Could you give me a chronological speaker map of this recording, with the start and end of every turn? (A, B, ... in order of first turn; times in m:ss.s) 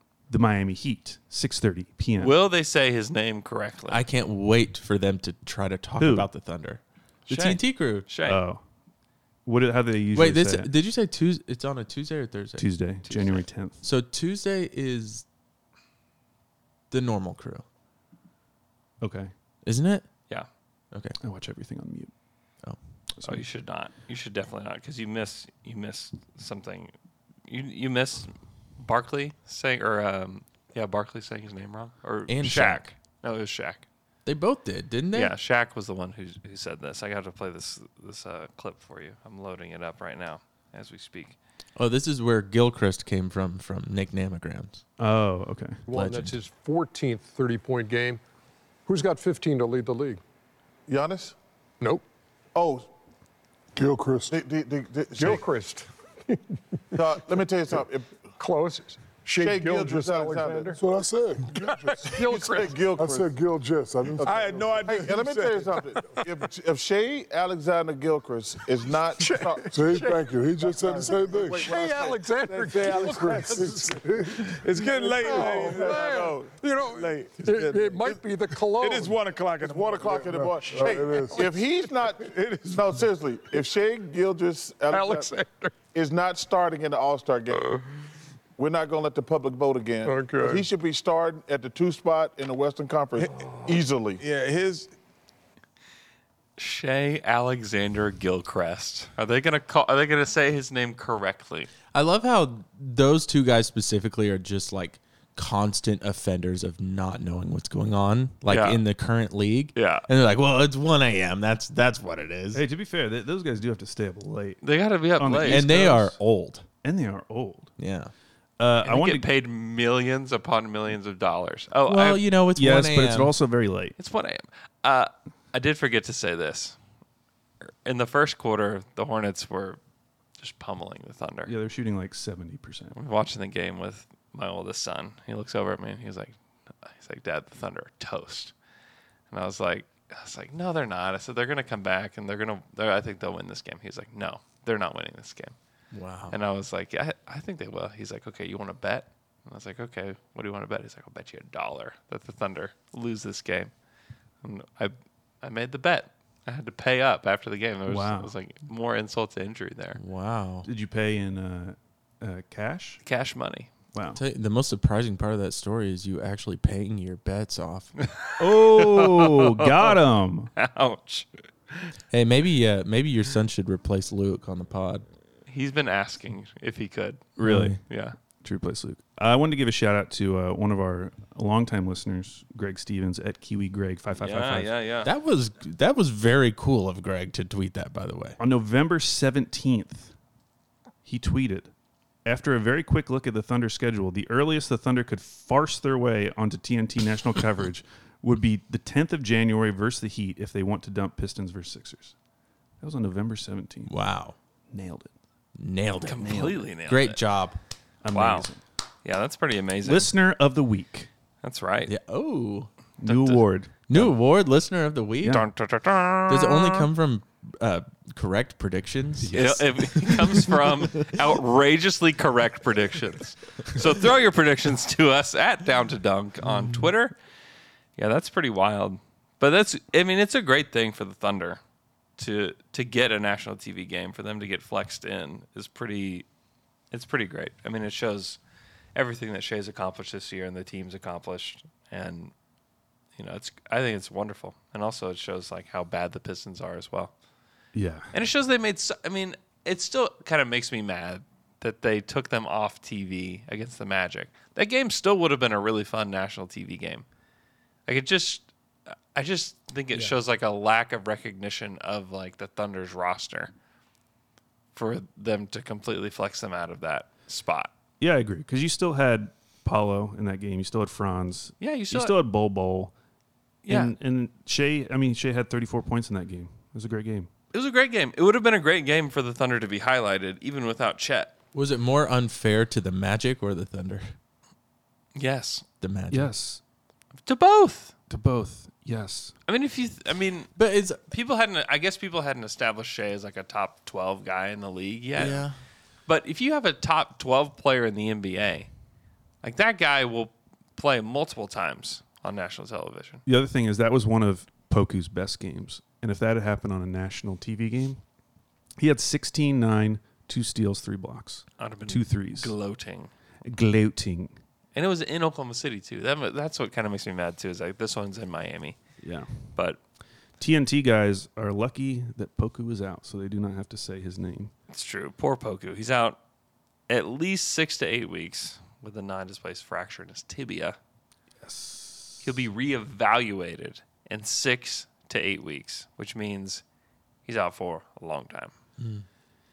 0:00.3-0:02.3 A
0:02.2-0:04.0 B
0:03.9-0:08.1 C
0:06.0-0:06.3 A
0:07.3-0:08.4 B
0:08.2-0:08.6 A
0:09.4-0:10.7 A
0:10.1-0:12.7 C
0:12.6-0:13.8 A
0:13.0-0:13.4 B
0:13.8-0:15.2 C
0:16.9-0:17.6 C
0:19.0-0:19.3 A
0:19.6-0:20.0 C
0:20.9-0:21.2 C
0:21.2-0:22.1 A
0:23.2-0:26.9 B
0:27.5-0:33.8 B
0:32.3-0:32.8 C
0:34.2-0:35.3 C
0:35.1-0:41.4 B
0:41.8-0:44.8 C
0:45.0-0:45.8 A
0:45.9-0:48.2 D
0:45.9-0:46.4 C
0:48.8-0:50.2 D
0:50.9-0:51.4 E
0:52.5-0:52.9 E
0:53.8-0:54.3 F
0:54.3-0:55.4 E
0:55.2-0:56.4 D
0:56.9-0:58.1 E
0:58.4-1:00.8 D
0:59.3-1:00.8 E
1:00.8-1:02.0 F
1:01.5-1:02.9 D
1:01.8-1:03.3 E
1:02.9-1:04.7 F
1:04.1-1:13.8 E
1:09.2-1:10.2 D
1:09.7-1:11.7 F
1:11.0-1:19.2 D
1:13.1-1:14.4 F
1:14.5-1:17.4 E
1:19.5-1:25.3 E
1:20.5-1:21.5 F
1:24.9-1:25.7 D
1:25.9-1:27.7 E
1:28.6-1:34.2 E
1:30.0-1:30.6 D
1:36.6-1:41.7 B
1:41.9-1:52.6 C
1:48.5-1:48.8 B
1:49.7-1:50.1 B
1:52.5-1:54.6 A
1:54.6-1:55.9 B
1:55.2-1:56.2 A
1:55.4-1:56.6 C
1:56.8-1:57.7 A
1:57.8-1:58.1 C
1:58.6-1:59.2 A
1:58.8-2:02.2 B
2:01.9-2:03.3 C
2:02.5-2:04.0 A
2:04.0-2:06.8 B
2:07.8-2:09.8 B
2:10.4-2:11.5 B
2:11.4-2:13.0 A
2:12.9-2:16.3 B
2:16.8-2:18.5 B
2:19.3-2:25.5 B
2:25.9-2:26.4 C
2:26.3-2:33.7 B
2:34.4-2:40.0 B
2:37.9-2:38.3 A
2:40.0-2:40.7 C
2:40.6-2:43.0 A
2:43.0-2:43.7 B
2:43.9-2:44.2 A
2:44.1-2:47.9 C
2:48.1-2:50.0 B
2:48.4-2:50.5 A
2:50.6-2:51.9 B
2:52.1-2:55.0 C
2:55.5-2:58.2 B
2:57.4-2:57.8 A
2:57.4-2:57.8 C
2:58.4-3:04.7 A
3:04.2-3:05.1 B
3:05.0-3:08.4 C
3:08.4-3:10.1 A
3:11.0-3:11.7 A
3:12.2-3:22.1 A
3:22.8-3:23.9 A
3:23.9-3:24.4 C
3:24.7-3:25.1 A
3:25.6-3:27.6 C
3:26.0-3:27.2 B
3:26.2-3:26.6 A
3:28.0-3:28.6 A
3:28.1-3:28.5 B
3:29.0-3:30.1 B
3:29.8-3:31.1 A
3:31.4-3:31.9 B
3:31.9-3:32.7 C
3:33.0-3:34.1 A
3:33.0-3:33.4 B
3:33.9-3:35.4 C
3:35.2-3:36.9 B
3:36.3-3:41.2 C
3:39.2-3:40.2 A
3:39.3-3:47.1 B
3:46.5-3:46.8 C
3:48.0-3:51.6 B
3:52.2-3:56.2 B
3:56.9-3:58.4 B
3:58.9-4:02.3 B
4:03.2-4:07.1 B
4:07.7-4:08.1 A
4:08.1-4:17.0 B
4:17.9-4:18.5 B
4:19.1-4:23.5 B
4:24.7-4:27.7 B
4:28.0-4:32.9 A
4:31.6-4:32.2 B
4:33.6-4:33.9 B
4:33.6-4:37.3 A
4:37.5-4:41.3 B
4:41.5-4:44.1 C
4:45.2-4:45.6 B
4:45.8-4:46.3 C
4:46.1-4:46.6 A
4:47.2-4:47.9 B
4:48.1-4:49.3 A
4:49.5-4:50.5 B
4:50.6-4:51.0 C
4:51.1-4:55.5 B
4:55.2-4:55.5 C
4:56.1-4:58.7 B
4:59.4-5:03.2 B
5:03.2-5:08.0 A
5:08.8-5:12.5 A
5:11.6-5:13.1 B
5:13.4-5:14.4 A
5:14.7-5:18.8 B
5:19.0-5:19.3 A
5:20.4-5:24.5 A
5:24.7-5:26.2 B
5:26.9-5:30.8 B
5:31.4-5:32.2 A
5:32.2-5:36.6 B
5:37.2-5:38.5 B
5:38.8-5:39.0 C